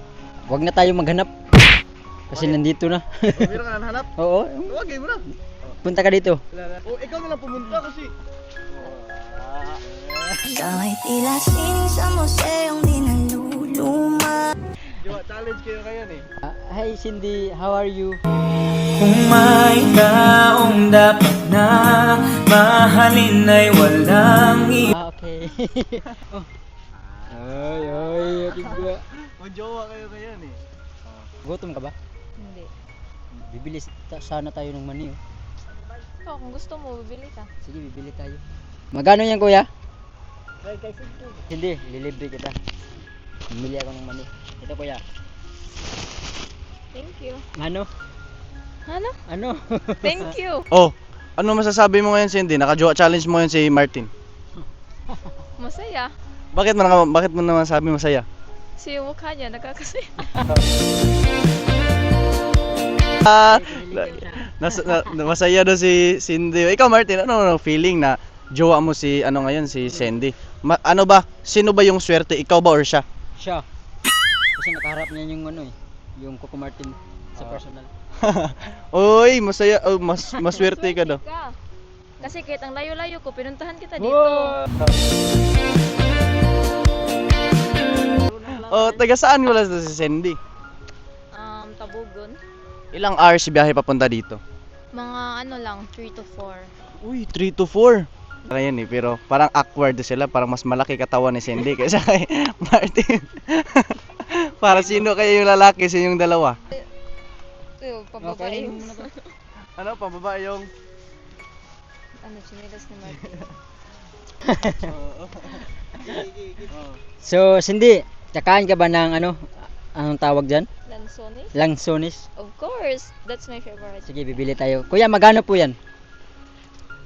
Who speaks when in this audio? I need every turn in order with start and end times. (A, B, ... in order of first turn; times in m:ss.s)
0:00.5-0:01.3 A
0:02.3-0:03.6 A
0:03.3-0:04.1 B
0:04.2-0:04.8 A
0:04.7-0:05.8 B
0:05.8-0:06.4 A
0:06.6-0:08.1 B
0:08.7-0:10.1 B
0:10.5-0:14.5 C
0:15.0-0:16.2 B
0:16.4-0:18.2 A
0:19.0-0:24.8 D
0:24.9-0:26.5 A
0:27.2-0:27.4 B
0:27.3-0:29.0 A
0:28.4-0:30.6 B
0:31.4-0:31.9 A
0:32.4-0:32.7 E
0:33.3-0:35.2 A
0:36.2-0:37.5 E
0:37.6-0:38.4 A
0:38.9-0:39.7 A
0:41.5-0:42.6 A
0:43.5-0:45.0 A
0:46.9-0:47.4 E
0:47.6-0:47.9 A
0:48.9-0:49.2 E
0:49.3-0:50.3 A
0:50.0-0:50.6 E
0:50.7-0:54.1 B
0:55.1-0:55.4 A
0:55.6-0:56.1 E
0:56.5-0:58.2 B
0:58.8-1:00.1 E
1:03.2-1:13.0 B
1:03.3-1:05.1 A
1:13.4-1:13.6 A
1:14.6-1:17.9 A
1:18.2-1:21.2 B
1:20.5-1:21.5 E
1:22.2-1:24.6 E
1:24.0-1:24.7 A
1:28.2-1:29.0 E
1:28.6-1:30.4 B
1:31.3-1:32.4 E
1:32.9-1:34.4 B
1:34.9-1:36.7 E
1:37.0-1:46.6 B
1:44.7-1:45.0 A
1:47.8-1:49.3 E
1:48.2-1:49.1 A
1:49.8-1:50.7 B
1:52.2-1:53.5 E
1:54.4-1:54.8 A
1:54.7-1:57.0 B
1:57.2-2:00.7 A
2:00.9-2:01.5 E
2:01.5-2:02.2 A
2:02.4-2:04.0 E
2:04.0-2:05.8 A